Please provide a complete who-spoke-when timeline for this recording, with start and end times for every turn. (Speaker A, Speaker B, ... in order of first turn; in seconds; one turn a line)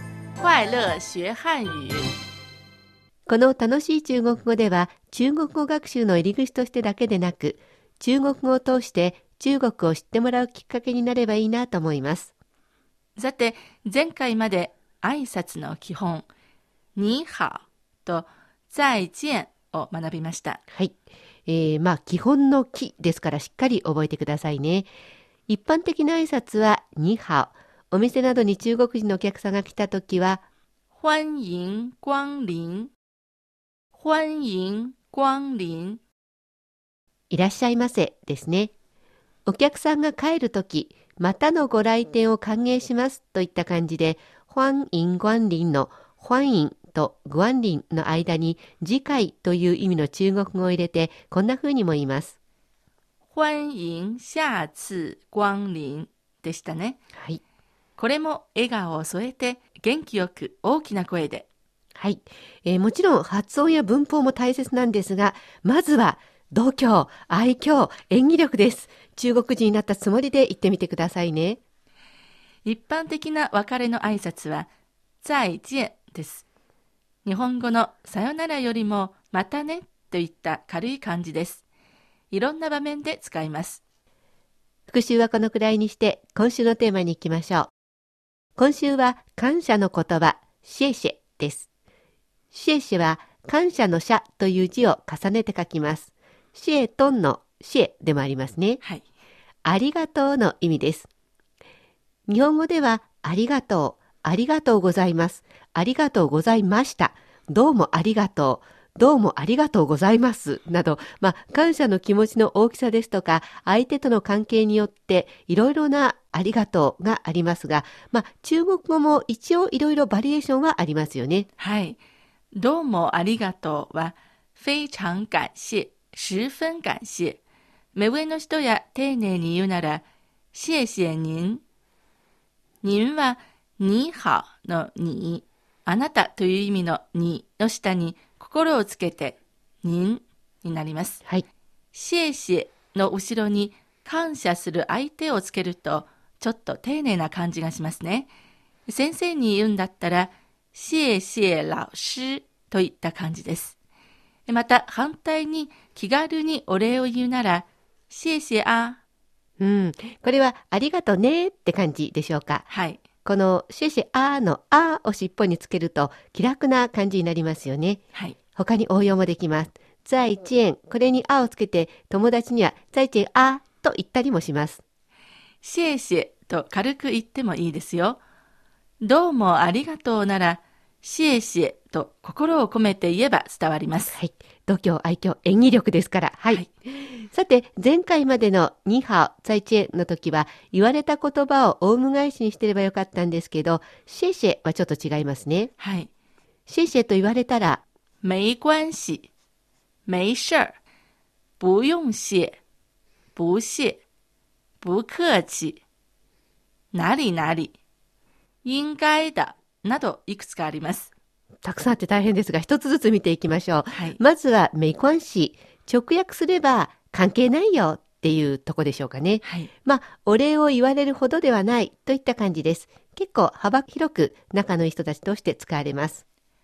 Speaker A: 0.4-2.1
Speaker B: 3.3-12.3
Speaker A: 13.2-16.3
Speaker A: 16.9-20.6
Speaker B: 20.7-24.9
Speaker B: 25.5-30.4
Speaker A: 30.9-32.9
Speaker A: 33.9-36.0
Speaker B: 37.3-38.7
Speaker B: 39.5-52.3
Speaker A: 53.3-57.0
Speaker A: 58.0-61.5
Speaker B: 62.0-71.6
Speaker A: 72.6-74.7
Speaker A: 75.2-76.5
Speaker A: 77.2-81.6
Speaker A: 82.3-83.8
Speaker B: 84.9-87.7
Speaker B: 88.6-91.7
Speaker B: 92.5-98.8
Speaker B: 99.6-101.1
Speaker B: 102.3-121.5
Speaker A: 121.6-122.0
Speaker A: 122.5-127.4
Speaker A: 127.9-131.6
Speaker A: 132.8-141.2
Speaker A: 141.9-148.3
Speaker A: 148.9-153.7
Speaker A: 154.5-159.0
Speaker B: 159.6-162.7
Speaker A: 162.7-163.0
Speaker B: 163.2-168.0
Speaker B: 168.6-174.8
Speaker A: 175.6-178.2
Speaker A: 179.0-184.2
Speaker B: 184.1-195.7
Speaker A: 195.8-196.1
Speaker B: 196.7-197.8
Speaker A: 198.2-199.3
Speaker A: 200.1-200.7
Speaker A: 201.6-202.6
Speaker A: 203.3-204.0
Speaker A: 204.8-205.8
Speaker A: 206.9-207.8
Speaker A: 208.6-211.1
Speaker B: 211.6-226.2
Speaker A: 213.9-214.2
Speaker A: 219.4-219.7